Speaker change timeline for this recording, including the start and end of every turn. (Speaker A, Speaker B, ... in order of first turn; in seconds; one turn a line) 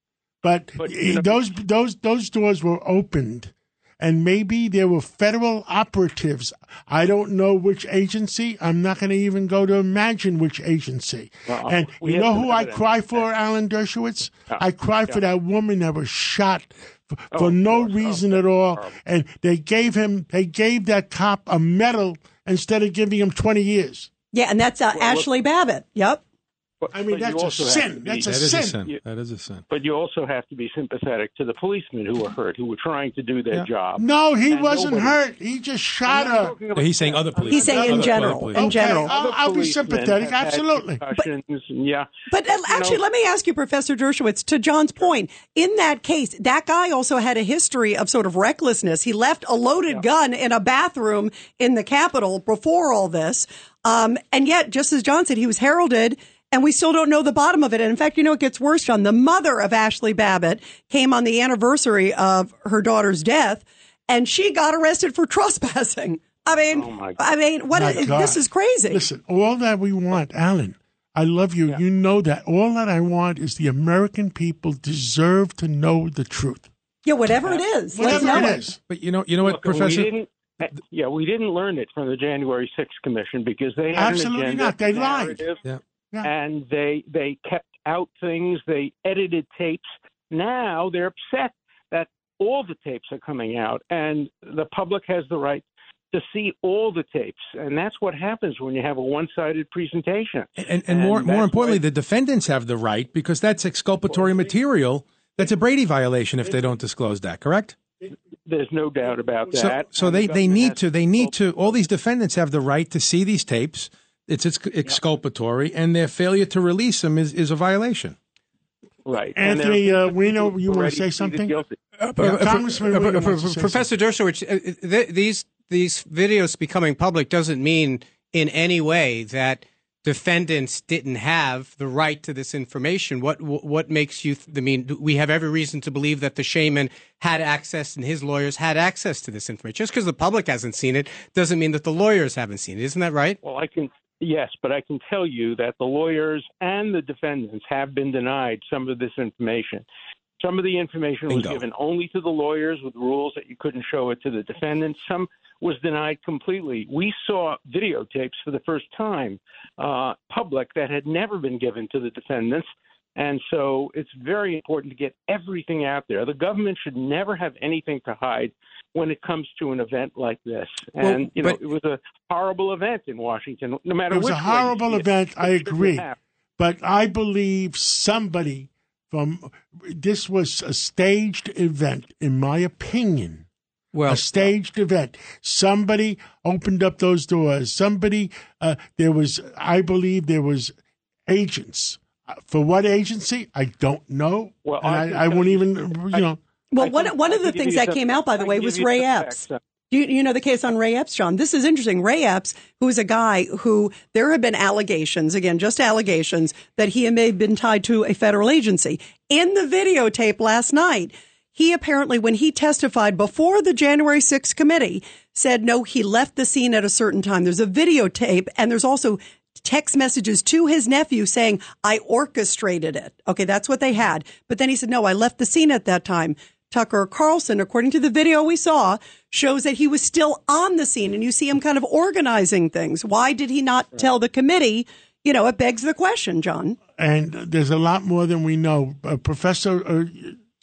Speaker A: 0.4-24.1
Speaker B: 0.8-1.4
Speaker B: 11.5-13.3
Speaker B: 14.5-15.2
Speaker B: 17.3-19.0
Speaker C: 24.3-26.2
Speaker B: 24.9-25.3
Speaker B: 26.8-29.0
Speaker A: 26.9-28.8
Speaker D: 28.3-29.6
Speaker B: 29.7-35.2
Speaker A: 34.0-36.6
Speaker B: 36.1-42.1
Speaker D: 36.7-38.7
Speaker C: 37.5-39.1
Speaker A: 37.5-38.0
Speaker A: 38.5-41.0
Speaker C: 42.3-69.0
Speaker B: 42.7-43.0
Speaker B: 66.7-67.2
Speaker A: 67.7-76.7
Speaker C: 77.0-78.6
Speaker A: 77.9-78.8
Speaker D: 78.9-80.1
Speaker B: 79.4-85.6
Speaker A: 83.9-85.5
Speaker B: 86.2-101.8
Speaker D: 100.6-107.8
Speaker B: 108.5-111.3
Speaker D: 109.9-118.2
Speaker B: 119.0-121.8
Speaker A: 119.3-121.6
Speaker E: 122.1-143.4
Speaker A: 122.2-123.9
Speaker B: 143.4-149.8
Speaker B: 150.4-176.2
Speaker D: 151.3-151.6
Speaker E: 171.0-171.6
Speaker A: 174.1-183.4
Speaker E: 183.9-184.2
Speaker A: 184.1-190.8
Speaker A: 191.3-196.4
Speaker B: 194.7-199.6
Speaker C: 196.7-236.8
Speaker A: 237.0-240.4